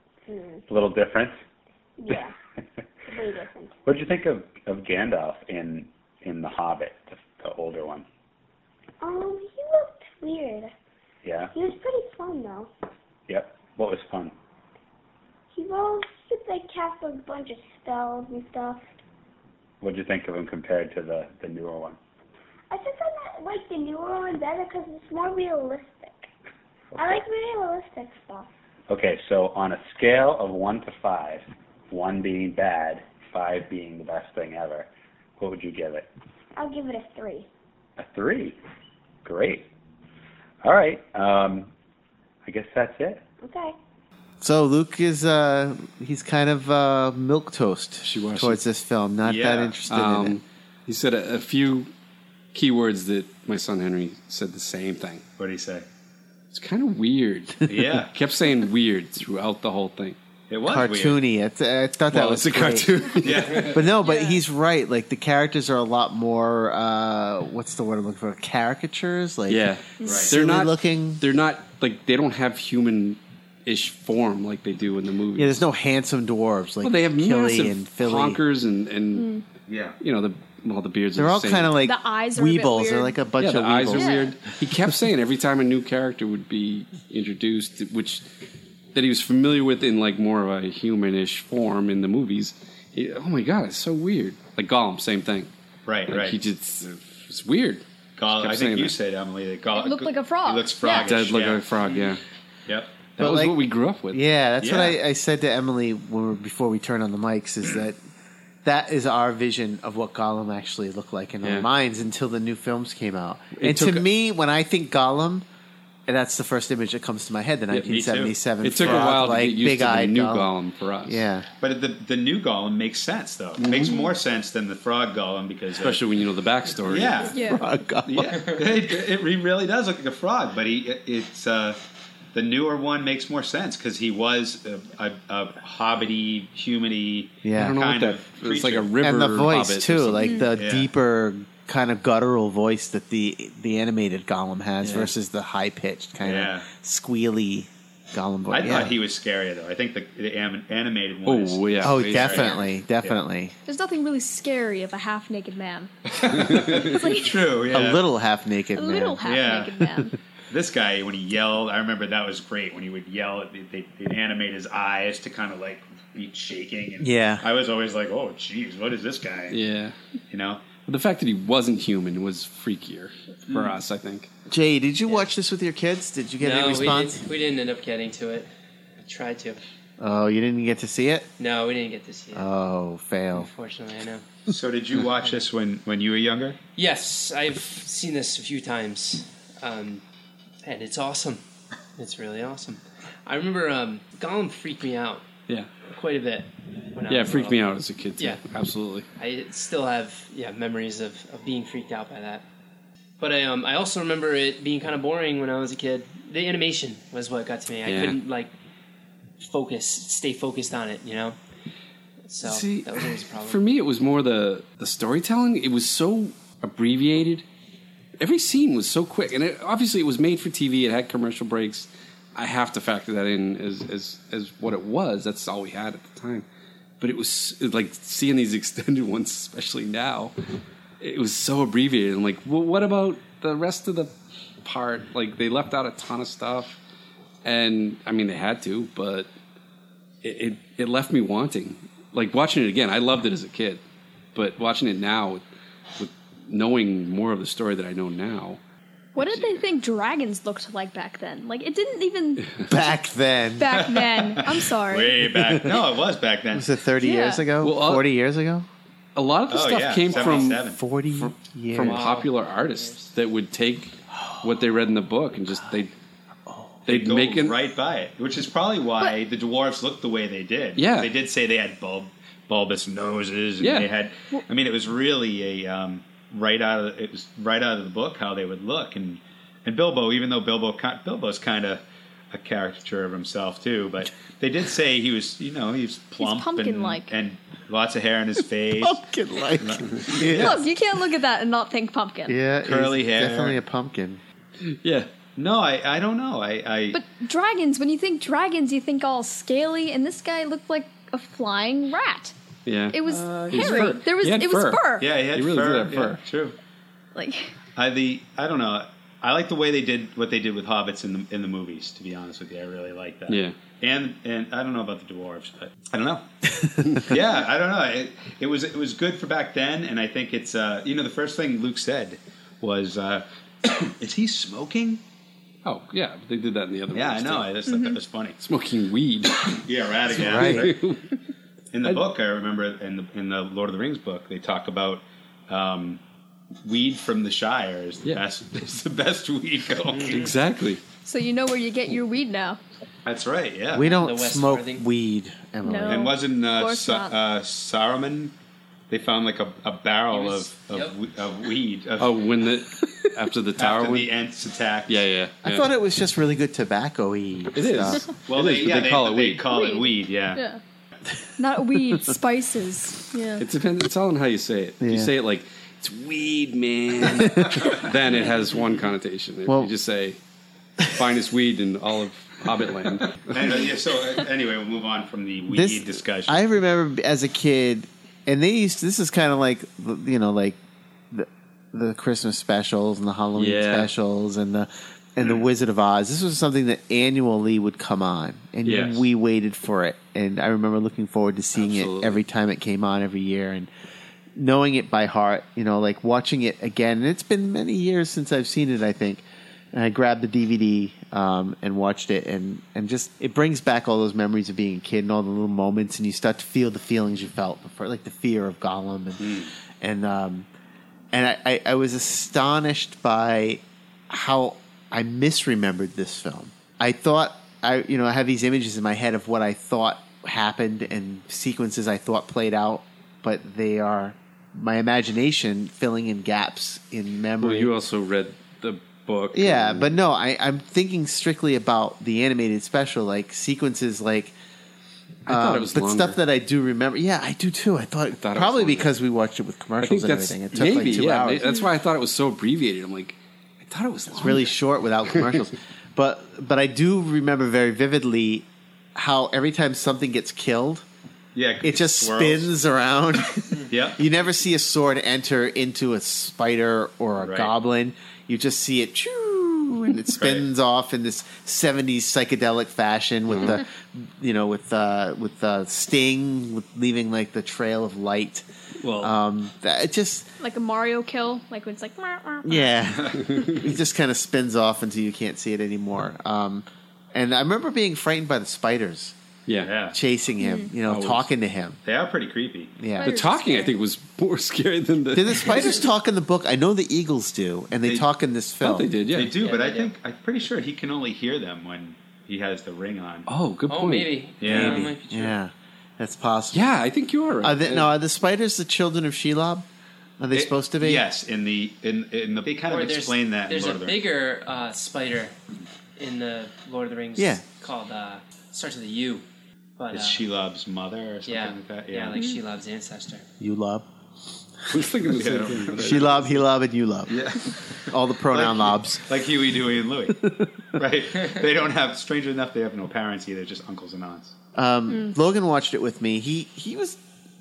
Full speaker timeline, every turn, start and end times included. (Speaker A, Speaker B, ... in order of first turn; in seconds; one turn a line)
Speaker A: 0.3-0.6
Speaker B: 0.7-1.4
Speaker A: 2.0-2.4
Speaker A: 3.1-3.8
Speaker B: 3.9-8.1
Speaker A: 9.0-10.7
Speaker B: 11.2-11.5
Speaker A: 11.5-12.7
Speaker B: 13.3-14.3
Speaker A: 15.5-18.8
Speaker B: 19.8-22.0
Speaker A: 22.7-26.3
Speaker B: 26.9-27.2
Speaker A: 27.0-28.5
Speaker B: 28.9-34.9
Speaker B: 35.4-36.1
Speaker A: 36.6-37.5
Speaker B: 38.0-38.6
Speaker B: 39.2-39.7
Speaker B: 40.6-41.7
Speaker B: 42.5-43.2
Speaker A: 43.4-43.7
Speaker C: 44.4-50.4
Speaker D: 48.0-48.6
Speaker E: 49.2-49.8
Speaker D: 49.9-51.9
Speaker D: 52.5-55.2
Speaker E: 55.4-55.9
Speaker D: 56.5-60.2
Speaker E: 57.7-58.1
Speaker E: 60.5-61.2
Speaker C: 60.7-71.2
Speaker D: 62.1-63.9
Speaker E: 63.2-63.9
Speaker F: 64.0-64.4
Speaker D: 69.5-75.6
Speaker F: 70.0-70.3
Speaker E: 70.0-70.3
Speaker C: 75.4-78.4
Speaker D: 76.8-79.3
Speaker F: 79.1-79.4
Speaker E: 79.7-80.0
Speaker D: 80.0-81.8
Speaker C: 81.2-84.3
Speaker F: 81.8-83.2
Speaker D: 83.4-88.2
Speaker F: 83.9-84.3
Speaker D: 88.9-95.5
Speaker E: 95.9-96.4
Speaker D: 96.1-98.9
Speaker E: 98.2-102.1
Speaker F: 99.7-101.1
Speaker D: 100.9-102.2
Speaker D: 103.2-104.2
Speaker C: 103.2-108.0
Speaker E: 104.6-105.0
Speaker C: 108.6-115.5
Speaker D: 113.6-114.0
Speaker C: 116.1-120.5
Speaker E: 117.8-119.2
Speaker D: 118.6-121.2
Speaker C: 121.0-121.5
Speaker E: 121.6-126.0
Speaker D: 123.6-123.9
Speaker F: 123.8-124.1
Speaker D: 125.8-127.3
Speaker E: 126.9-127.3
Speaker F: 127.3-127.6
Speaker C: 127.4-128.3
Speaker E: 128.1-131.8
Speaker E: 132.3-138.9
Speaker C: 137.4-137.8
Speaker D: 137.6-140.4
Speaker C: 139.0-148.9
Speaker F: 140.2-140.5
Speaker E: 140.6-140.9
Speaker D: 144.8-145.1
Speaker E: 146.2-146.7
Speaker E: 148.5-153.2
Speaker D: 151.2-152.6
Speaker C: 151.8-153.5
Speaker F: 153.7-155.9
Speaker E: 156.2-158.0
Speaker F: 156.5-157.4
Speaker C: 157.7-159.2
Speaker F: 158.8-160.2
Speaker E: 159.2-159.8
Speaker E: 160.5-169.6
Speaker C: 167.0-167.4
Speaker D: 169.5-170.0
Speaker E: 170.3-170.6
Speaker D: 170.8-174.3
Speaker C: 174.5-177.2
Speaker G: 176.4-178.5
Speaker G: 179.0-179.6
Speaker C: 180.0-181.3
Speaker G: 181.4-182.5
Speaker C: 182.3-183.5
Speaker G: 183.3-184.2
Speaker E: 184.5-186.6
Speaker G: 186.8-190.0
Speaker G: 190.6-191.4
Speaker G: 192.0-195.2
Speaker G: 195.8-198.4
Speaker D: 197.1-199.1
Speaker G: 199.2-202.4
Speaker G: 203.2-208.5
Speaker D: 207.8-208.2
Speaker G: 209.4-211.4
Speaker G: 212.3-213.6
Speaker D: 212.4-217.4
Speaker D: 218.2-226.4
Speaker D: 227.0-230.3
Speaker D: 231.0-236.8
Speaker D: 237.4-239.3
Speaker D: 240.2-243.8
Speaker D: 244.3-245.4
Speaker D: 246.0-248.6
Speaker F: 249.1-252.6
Speaker C: 252.7-253.9
Speaker F: 253.6-255.4
Speaker E: 253.8-256.7
Speaker C: 256.5-258.7
Speaker F: 257.0-257.4
Speaker D: 257.6-258.1
Speaker D: 259.1-265.9
Speaker E: 259.5-260.8
Speaker C: 260.6-262.1
Speaker G: 261.8-263.1
Speaker C: 264.3-264.7
Speaker C: 266.5-266.8
Speaker D: 266.9-267.6
Speaker E: 266.9-289.0
Speaker D: 270.8-271.1
Speaker D: 273.6-273.9
Speaker F: 286.2-287.1
Speaker C: 288.8-290.6
Speaker E: 289.6-290.6
Speaker F: 290.3-292.4
Speaker C: 292.3-294.2
Speaker E: 292.6-293.6
Speaker D: 294.7-295.1
Speaker E: 295.4-297.0
Speaker F: 296.9-302.3
Speaker D: 302.7-306.2
Speaker F: 302.9-305.1
Speaker E: 303.1-303.9
Speaker E: 305.0-306.6
Speaker F: 307.1-307.5
Speaker E: 307.8-316.2
Speaker D: 313.3-313.6
Speaker D: 316.9-317.1
Speaker E: 317.1-325.0
Speaker D: 325.6-327.5
Speaker E: 326.9-328.4
Speaker F: 327.7-328.0
Speaker D: 328.4-331.1
Speaker E: 329.6-330.8
Speaker C: 330.2-330.8
Speaker E: 331.7-336.0
Speaker E: 336.6-340.3
Speaker D: 340.0-340.8
Speaker F: 341.0-342.6
Speaker E: 343.1-343.9
Speaker C: 343.7-346.1
Speaker G: 343.8-344.8
Speaker F: 345.6-347.1
Speaker E: 345.9-348.3
Speaker E: 348.9-352.2
Speaker G: 350.1-350.9
Speaker D: 352.0-354.1
Speaker E: 353.6-355.1
Speaker D: 354.9-355.7
Speaker C: 355.4-358.0
Speaker D: 357.6-359.5
Speaker E: 358.3-360.4
Speaker F: 359.5-360.6
Speaker F: 361.4-363.4
Speaker D: 363.4-370.2
Speaker C: 364.8-365.1
Speaker C: 369.5-369.7
Speaker D: 370.8-373.5
Speaker E: 373.2-376.4
Speaker C: 375.5-380.6
Speaker C: 381.1-393.7
Speaker D: 383.4-383.9
Speaker D: 388.6-389.0
Speaker D: 391.6-392.2
Speaker C: 394.4-410.5
Speaker E: 409.2-409.5
Speaker C: 411.1-427.7
Speaker D: 427.4-429.9
Speaker C: 429.3-434.4
Speaker D: 435.3-436.2
Speaker C: 435.3-441.5
Speaker D: 438.2-438.9
Speaker D: 439.8-444.5
Speaker F: 441.4-441.7
Speaker C: 444.1-450.9
Speaker E: 451.4-452.5
Speaker C: 451.6-468.4
Speaker E: 453.7-454.0
Speaker E: 457.2-457.5
Speaker E: 460.2-460.5
Speaker E: 468.9-469.1
Speaker C: 469.0-470.3
Speaker F: 470.4-472.8
Speaker C: 472.4-479.2
Speaker D: 473.3-473.6
Speaker D: 479.5-479.7
Speaker E: 479.6-480.0
Speaker C: 479.9-481.8
Speaker F: 480.4-480.7
Speaker D: 480.9-481.3
Speaker E: 481.9-482.7
Speaker C: 482.8-483.2
Speaker F: 483.0-483.8
Speaker D: 483.0-485.8
Speaker C: 485.1-488.9
Speaker D: 488.6-489.3
Speaker E: 489.1-493.3
Speaker G: 489.4-489.9
Speaker D: 493.3-494.8
Speaker G: 493.7-495.4
Speaker E: 494.4-494.8
Speaker C: 494.5-496.8
Speaker D: 496.5-497.9
Speaker C: 497.4-499.6
Speaker C: 500.2-501.1
Speaker E: 500.3-504.0
Speaker G: 502.6-505.4
Speaker G: 506.0-509.2
Speaker C: 507.2-507.4
Speaker G: 509.8-510.2
Speaker E: 509.9-512.2
Speaker G: 511.2-513.2
Speaker F: 512.1-512.4
Speaker C: 513.4-513.9
Speaker D: 514.7-516.4
Speaker E: 515.1-516.2
Speaker C: 515.8-519.0
Speaker E: 517.1-524.4
Speaker C: 520.2-520.5
Speaker C: 524.5-527.0